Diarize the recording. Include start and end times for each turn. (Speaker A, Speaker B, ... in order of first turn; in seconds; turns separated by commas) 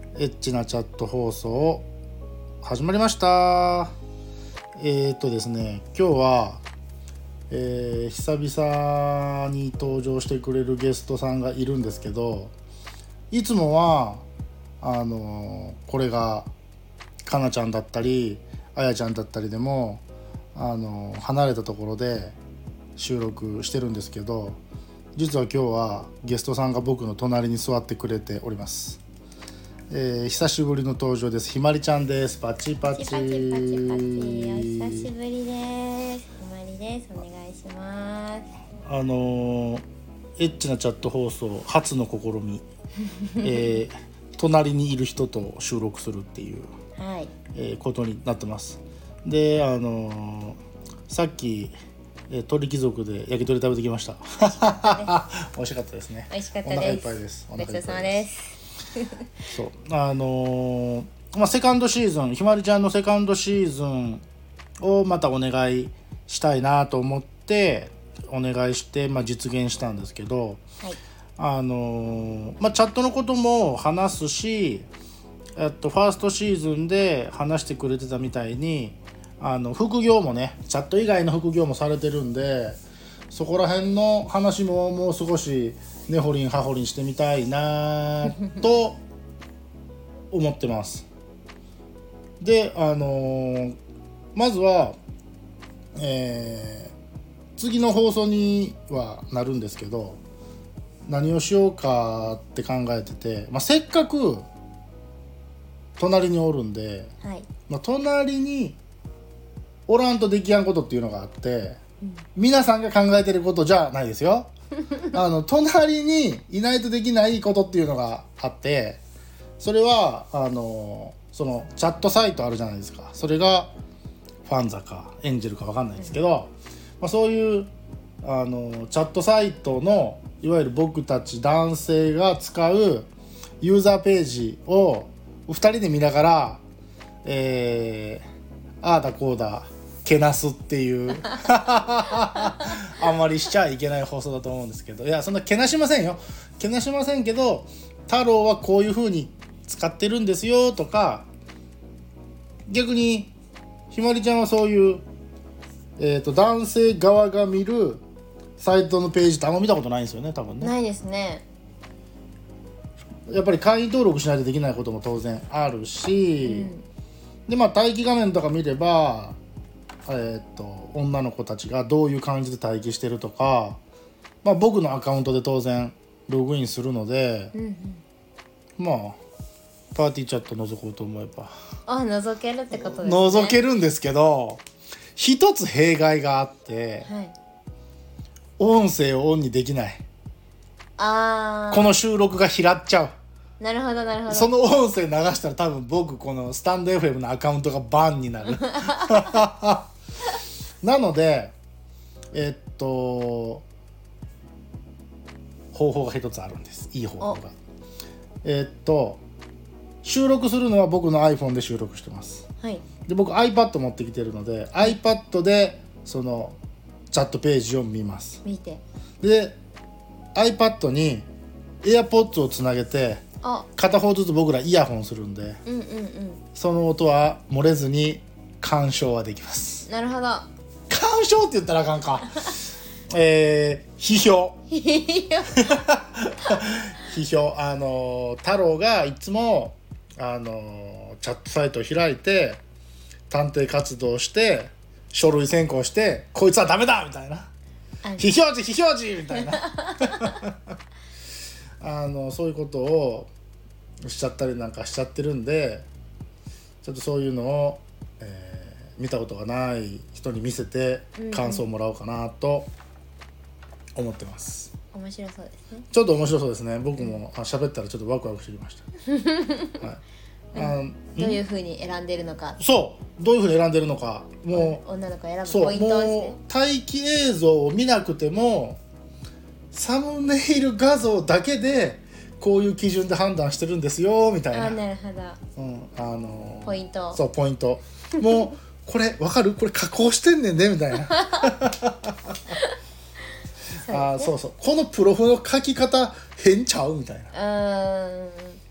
Speaker A: 0.1-1.9, Speaker A: 2.6-3.9, Speaker A: 4.8-6.6, Speaker A: 7.5-12.5, Speaker A: 13.3-14.2, Speaker A: 14.8-16.5, Speaker A: 17.2-20.0, Speaker A: 20.5-22.4, Speaker A: 23.0-24.6, Speaker A: 25.1-29.0, Speaker A: 29.9-35.1, Speaker B: 32.8-38.5, Speaker A: 38.8-39.8, Speaker A: 40.4-42.6, Speaker A: 43.4-46.7, Speaker B: 47.0-47.4, Speaker A: 47.5-51.7, Speaker A: 52.3-58.2, Speaker B: 54.4-55.2, Speaker B: 56.3-58.5, Speaker A: 59.5-64.2, Speaker A: 64.8-70.6, Speaker A: 71.4-74.8, Speaker A: 75.5-82.8, Speaker A: 83.3-89.0, Speaker A: 90.3-91.0, Speaker A: 92.4-93.8, Speaker A: 94.3-95.0, Speaker A: 96.0-96.9, Speaker A: 97.5-100.2, Speaker A: 101.0-104.5, Speaker A: 106.0-107.1, Speaker B: 107.2-107.5, Speaker A: 107.7-108.8, Speaker A: 109.9-111.8, Speaker A: 112.3-114.5, Speaker A: 115.0-119.0, Speaker A: 119.6-123.7, Speaker A: 124.4-127.7, Speaker A: 128.2-133.1, Speaker A: 133.6-136.6, Speaker A: 137.2-138.2, Speaker A: 138.8-151.3, Speaker A: 152.7-153.3, Speaker A: 153.9-155.0, Speaker A: 156.0-158.0, Speaker A: 158.6-160.8, Speaker B: 160.6-161.4, Speaker A: 163.3-166.7, Speaker B: 166.4-166.8, Speaker A: 167.5-169.4, Speaker A: 170.1-173.8, Speaker A: 174.4-177.5, Speaker B: 177.5-178.0, Speaker A: 178.8-179.2, Speaker A: 179.9-181.5, Speaker B: 181.9-183.6, Speaker A: 182.7-184.6, Speaker A: 185.2-187.1, Speaker B: 187.0-187.3, Speaker A: 188.6-190.0, Speaker B: 191.0-191.9, Speaker A: 191.7-193.1, Speaker B: 193.6-194.5, Speaker A: 194.3-199.9, Speaker A: 200.8-201.5, Speaker A: 202.3-203.7, Speaker A: 205.7-207.6, Speaker A: 208.4-209.2, Speaker A: 210.0-212.4, Speaker B: 212.6-212.9, Speaker A: 213.0-216.6, Speaker A: 217.1-218.4, Speaker B: 218.4-218.8, Speaker A: 219.2-219.6, Speaker A: 220.3-221.3, Speaker A: 221.8-223.2, Speaker B: 223.4-223.7, Speaker A: 223.7-225.6, Speaker B: 225.7-226.4, Speaker A: 226.5-229.9, Speaker B: 229.8-230.5, Speaker A: 230.9-232.6, Speaker A: 233.1-234.6, Speaker B: 234.7-235.7, Speaker A: 235.6-242.6, Speaker A: 243.3-247.5, Speaker B: 248.0-248.3, Speaker A: 248.2-250.6, Speaker B: 249.3-250.3, Speaker A: 251.8-253.3, Speaker A: 254.0-255.8, Speaker A: 256.8-262.7, Speaker B: 261.2-261.6, Speaker A: 263.9-264.7, Speaker B: 264.9-265.8, Speaker A: 265.9-268.9, Speaker B: 267.0-267.2, Speaker B: 269.1-269.8, Speaker A: 270.5-271.4, Speaker B: 270.5-272.6, Speaker A: 272.6-274.8, Speaker B: 274.5-276.4, Speaker A: 275.4-278.8, Speaker A: 279.7-284.8, Speaker B: 284.5-285.4, Speaker A: 285.6-292.4, Speaker B: 286.6-287.2, Speaker B: 291.2-291.5, Speaker B: 293.8-294.3, Speaker A: 293.9-297.3, Speaker B: 297.3-298.6